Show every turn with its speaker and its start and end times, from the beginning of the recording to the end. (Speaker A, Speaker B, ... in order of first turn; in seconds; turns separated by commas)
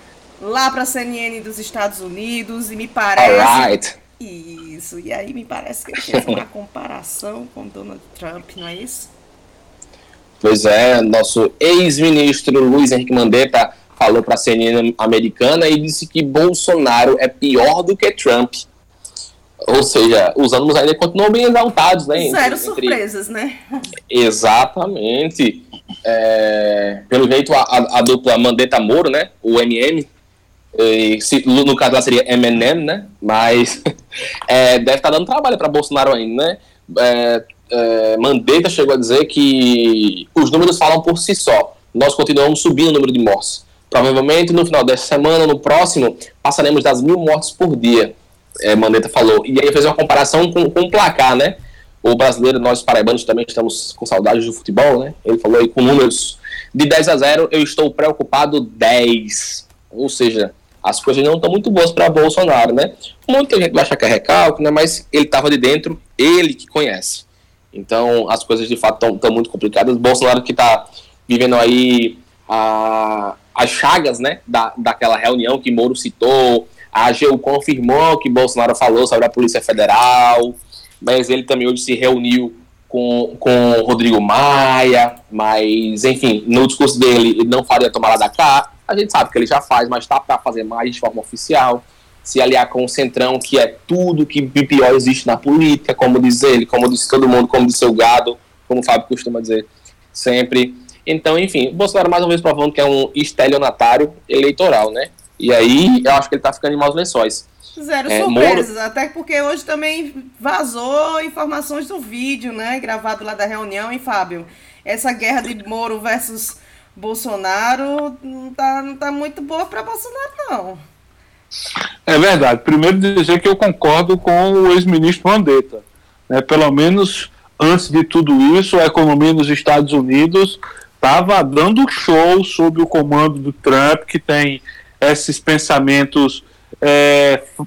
Speaker A: 0.4-9.1, Speaker B: 3.2-4.0, Speaker B: 10.4-18.6, Speaker B: 19.7-23.0, Speaker A: 22.1-23.6, Speaker B: 24.1-30.1, Speaker B: 30.7-33.8, Speaker B: 34.5-107.5, Speaker A: 107.8-120.8, Speaker B: 108.1-108.7, Speaker C: 122.1-137.4